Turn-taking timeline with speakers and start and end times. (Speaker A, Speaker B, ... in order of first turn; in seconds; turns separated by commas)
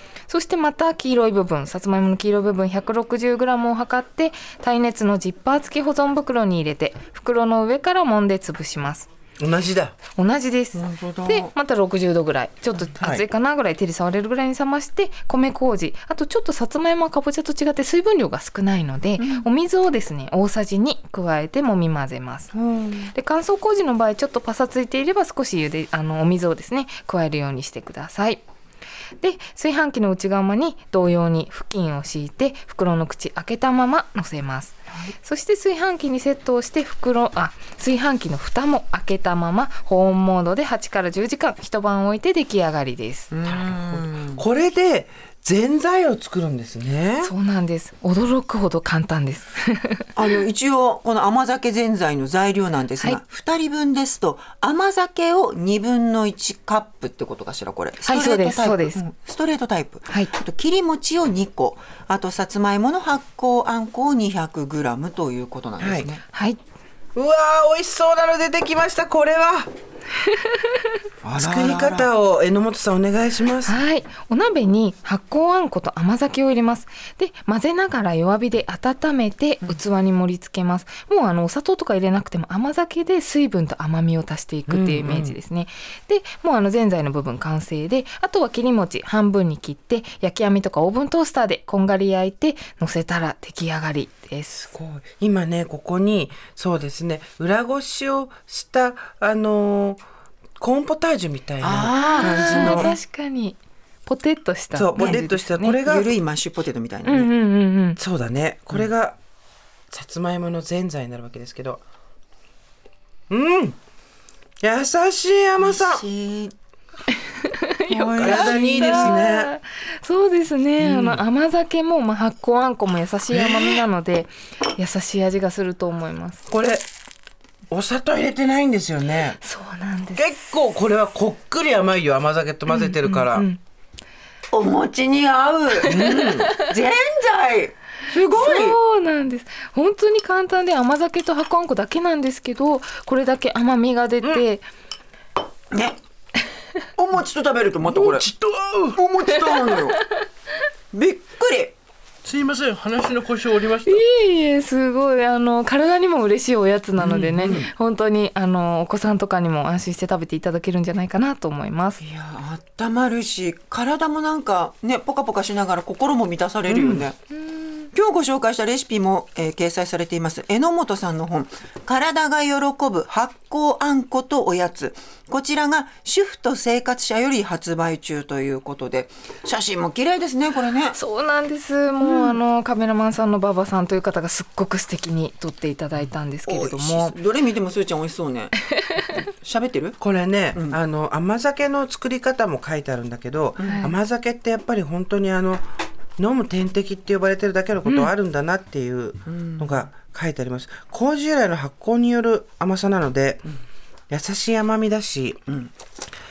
Speaker A: 0.3-9.1, Speaker B: 9.4-9.9, Speaker A: 10.1-22.5, Speaker C: 10.7-11.5, Speaker B: 13.0-13.2, Speaker C: 19.2-19.5, Speaker C: 22.5-23.1, Speaker A: 23.1-28.4, Speaker A: 29.2-43.3, Speaker C: 43.3-44.4, Speaker B: 43.5-47.3, Speaker A: 47.2-50.1, Speaker C: 50.1-66.2, Speaker A: 58.0-59.0, Speaker B: 65.8-66.1, Speaker A: 66.3-66.6, Speaker B: 67.1-69.7, Speaker C: 71.2-72.1, Speaker B: 71.3-73.8, Speaker A: 73.6-94.7, Speaker B: 84.7-85.3, Speaker B: 94.6-100.0, Speaker B: 100.6-102.9, Speaker C: 101.6-103.0, Speaker A: 102.0-105.8, Speaker B: 104.7-106.1, Speaker C: 105.0-107.3, Speaker A: 107.0-108.0, Speaker B: 108.0-109.2, Speaker B: 109.9-111.8, Speaker B: 113.3-113.8, Speaker B: 114.6-116.0, Speaker C: 115.6-116.5, Speaker A: 117.4-126.4, Speaker C: 117.9-119.2, Speaker B: 118.0-119.5, Speaker B: 120.8-121.2, Speaker B: 123.3-123.8, Speaker B: 126.5-126.8, Speaker B: 127.7-129.4, Speaker A: 129.4-130.5, Speaker B: 130.2-133.5, Speaker A: 132.7-133.6, Speaker C: 134.5-138.8, Speaker B: 135.8-136.5, Speaker A: 135.8-136.5, Speaker A: 138.3-144.7, Speaker C: 145.7-146.0, Speaker C: 147.0-148.3, Speaker B: 147.9-149.4, Speaker C: 148.9-150.0, Speaker C: 150.9-151.7, Speaker B: 152.2-154.0, Speaker A: 153.8-162.0, Speaker B: 157.0-157.7, Speaker C: 162.0-167.2, Speaker B: 166.7-167.0, Speaker A: 167.4-167.9, Speaker C: 167.9-180.9, Speaker A: 180.9-187.2, Speaker C: 182.0-182.4, Speaker C: 186.5-188.6, Speaker C: 189.1-190.0, Speaker B: 190.0-195.7, Speaker C: 193.6-193.9, Speaker A: 193.6-193.9, Speaker B: 196.2-203.4, Speaker C: 199.3-199.8, Speaker B: 204.1-205.4